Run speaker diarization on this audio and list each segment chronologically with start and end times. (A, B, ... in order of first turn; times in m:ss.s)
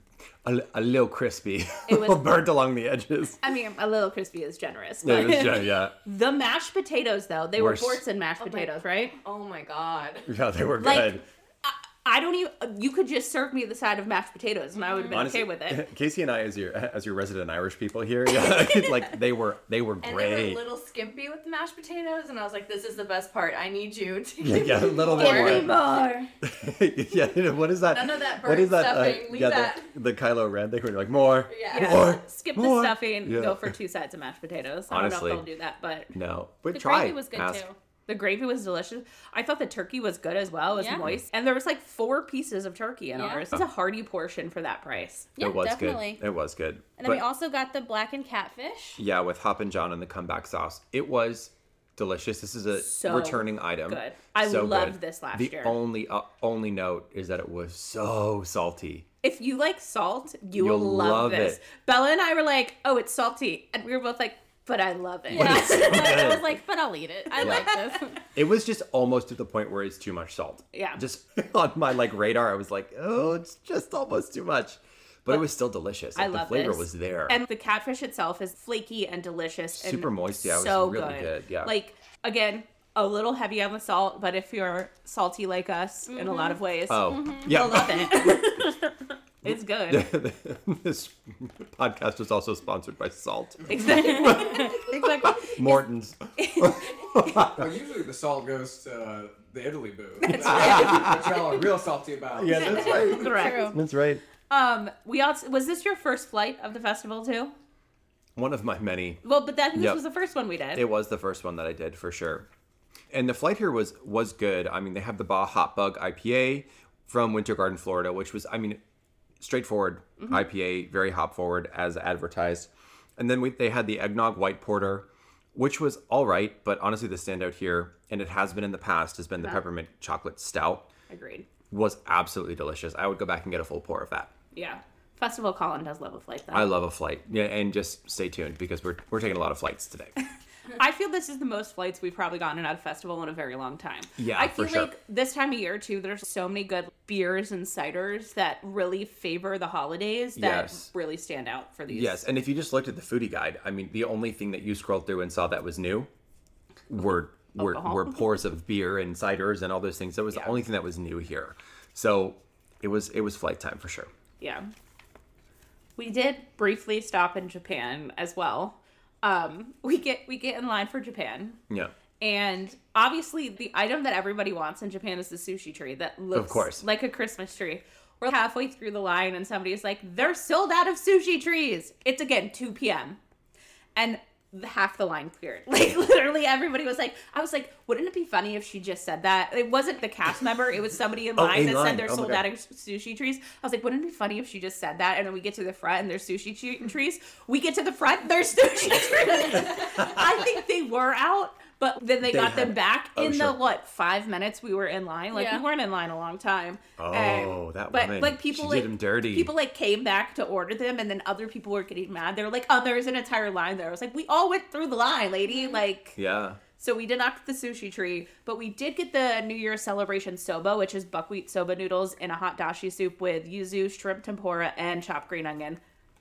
0:00.4-0:03.4 A
0:01.9-0:02.3 B
0:03.4-0:09.2 B
0:05.0-0:06.0 A
0:07.6-0:08.0 A
0:09.2-0:10.3 C
0:10.3-0:11.2 A
0:10.8-0:15.8 B
0:14.8-0:15.2 D
0:15.1-0:20.6 A
0:20.0-0:25.7 C
0:24.4-0:25.8 A
0:25.1-0:26.3 B
0:26.4-0:33.7 A
0:27.9-0:29.9 C
0:31.5-0:32.0 C
0:31.7-0:36.1 B
0:34.9-0:35.4 A
0:36.1-0:37.7 A
0:36.7-0:37.8 D
0:38.1-0:45.3 B
0:40.7-0:41.0 D
0:43.2-0:43.4 D
0:45.4-0:46.2 D
0:45.4-0:47.2 A
0:47.0-0:49.0 D
0:49.0-0:59.1 A
0:52.8-0:55.8 B
0:59.2-1:06.4 B
1:00.6-1:01.6 A
1:05.3-1:06.5 A
1:05.3-1:08.2 D
1:07.4-1:08.0 B
1:07.4-1:07.7 A
1:08.4-1:17.4 A
1:10.7-1:11.0 B
1:16.2-1:28.9 B
1:19.8-1:21.8 A
1:26.1-1:27.5 D
1:26.9-1:28.5 A
1:29.4-1:30.1 B
1:29.4-1:37.7 A
1:33.7-1:35.6 B
1:33.9-1:35.4 D
1:36.4-1:37.4 B
1:37.5-1:43.6 E
1:40.2-1:41.2 B
1:40.4-1:41.4 A
1:42.3-1:44.2 A
1:42.6-1:43.8 B
1:43.2-1:43.8 D
1:44.5-1:47.5 B
1:48.4-1:49.2 A
1:49.2-1:50.8 B
1:49.7-1:50.0 A
1:50.7-1:52.5 A
1:53.1-1:58.8 A
1:59.4-2:10.9 A
2:11.1-2:11.5 B
2:11.7-2:14.3 A
2:14.5-2:16.7 B
2:16.5-2:20.2 A
2:20.7-2:32.2 B
2:24.2-2:24.9 A
2:30.4-2:30.9 A
2:31.9-2:36.1 A
2:36.9-2:44.1 A
2:37.5-2:38.2 B
2:44.4-2:44.7 B
2:46.0-2:51.6 B
2:52.2-3:03.2 B
2:56.3-2:56.8 A
3:04.0-3:36.2 B
3:11.4-3:12.4 A
3:19.5-3:20.2 A
3:22.2-3:23.6 A
3:25.3-3:25.6 D
3:27.0-3:29.5 A
3:35.5-3:35.8 D
3:36.2-3:36.6 A
3:36.8-3:45.8 B